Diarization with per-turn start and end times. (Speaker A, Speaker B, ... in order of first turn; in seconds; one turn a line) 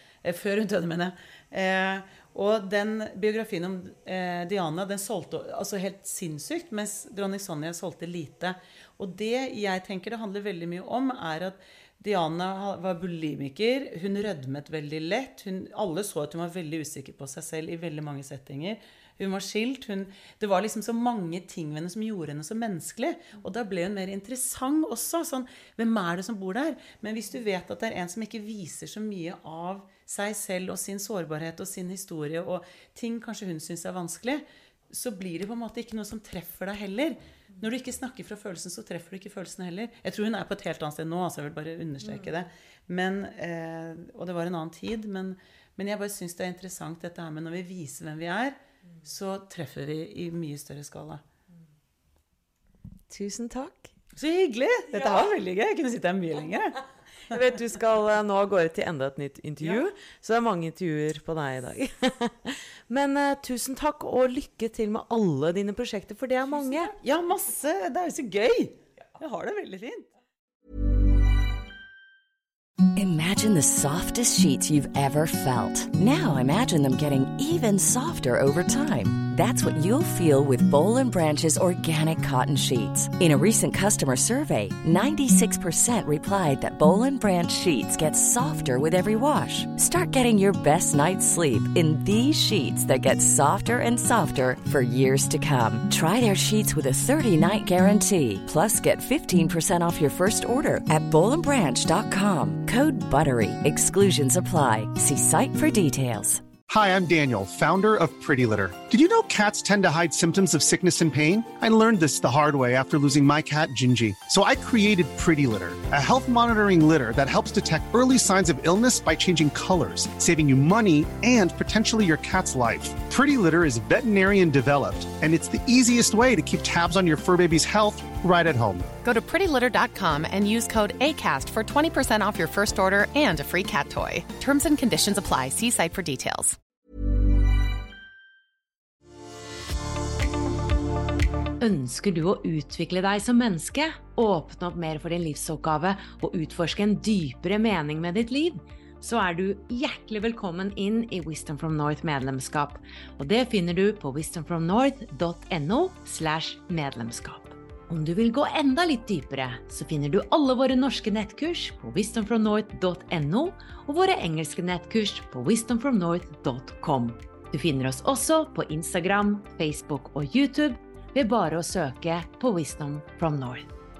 Speaker A: 0.2-51.2
Speaker B: 53.1-53.9
Speaker A: 54.2-56.8
Speaker B: 57.3-66.9
Speaker A: 66.8-70.1
Speaker C: 73.0-106.5
Speaker D: 106.7-128.9
Speaker E: 129.0-136.6
Speaker F: 141.6-173.7